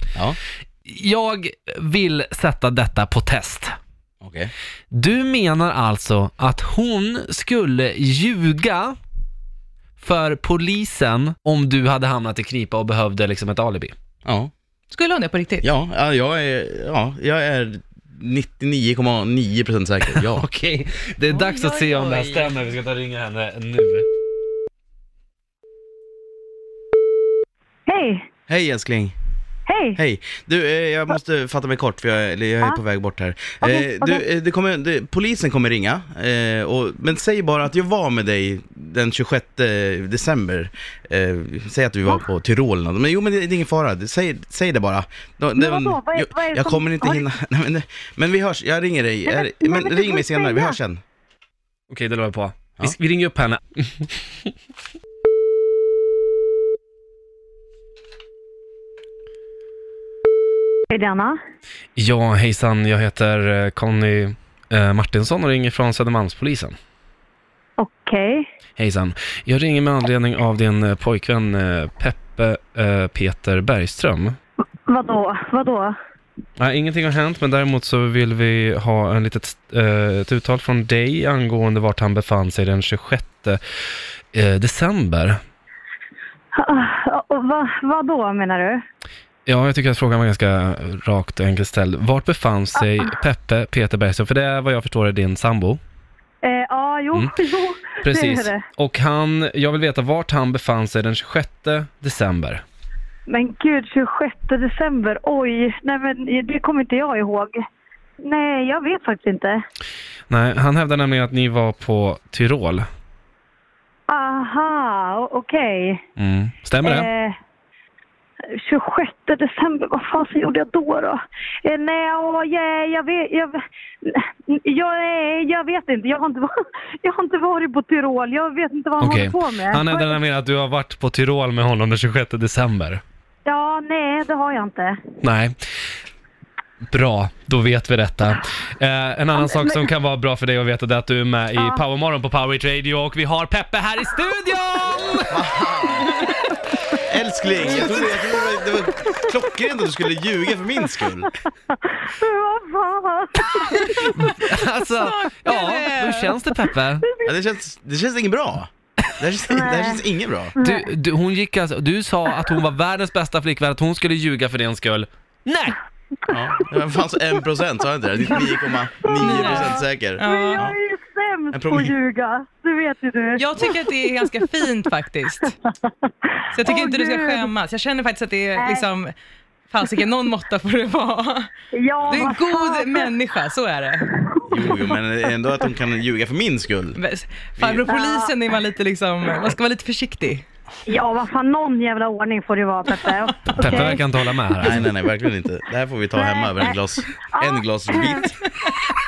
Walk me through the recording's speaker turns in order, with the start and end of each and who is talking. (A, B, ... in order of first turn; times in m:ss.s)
0:00.9-0:03.7 A
0:04.2-0:04.5 B
0:04.9-0:09.0 A
0:10.0-0:13.9 A
0:14.2-0:14.5 B
0:14.9-0:15.7 C
0:15.6-0:20.4 B
0:20.1-0:24.1 A
0:21.4-0:22.4 C
0:27.9-0:28.2 D
0:28.5-0:29.2 B
0:29.7-0:30.0 D
0:30.0-0:51.0 B
0:33.6-0:34.2 D
0:45.6-0:47.3 D
0:49.3-0:50.8 D
0:51.9-0:54.2 A
1:00.9-1:01.4 D
1:02.0-1:06.8 A
1:07.8-1:08.5 D
1:08.8-1:14.4 A
1:14.9-1:15.9 D
1:16.6-1:23.6 A
1:24.3-1:25.4 A
1:26.6-1:28.8 D
1:29.5-1:35.8 A
1:36.4-1:38.6 D
1:38.0-1:42.6 A
1:43.3-1:47.5 D
1:48.2-1:49.6 D
1:50.3-1:52.8 A
1:54.1-1:56.0 D
1:56.2-1:57.1 A
1:56.8-1:57.4 D
1:58.5-2:06.5 D
2:07.0-2:10.2 D
2:09.0-2:13.0 A
2:13.4-2:15.0 D
2:15.2-2:15.6 A
2:16.9-2:25.4 A
2:19.4-2:19.8 D
2:21.6-2:21.8 D
2:25.3-2:26.2 B
2:25.9-2:26.5 A
2:27.1-2:31.3 B
2:27.7-2:28.3 D
2:31.7-2:34.5 D
2:33.8-2:37.1 A
2:35.0-2:36.4 C
2:37.1-2:37.3 D
2:37.2-2:40.6 B
2:39.5-2:40.0 D
2:40.6-2:40.8 D
2:40.6-2:45.8 A
2:46.3-2:50.8 B
2:49.1-2:53.5 D
2:49.2-2:50.6 C
2:51.5-2:51.9 B
2:53.4-2:55.6 C
2:55.7-2:57.5 D
2:56.5-2:59.1 C
2:58.6-2:58.9 D
2:59.7-3:01.5 C
3:01.7-3:03.1 D
3:02.0-3:04.2 C
3:04.3-3:04.7 D
3:04.5-3:07.0 B
3:07.0-3:10.4 C
3:07.9-3:08.3 D
3:10.9-3:14.0 D
3:13.6-3:14.9 A
3:14.6-3:18.4 B
3:16.2-3:16.8 D
3:17.3-3:18.3 D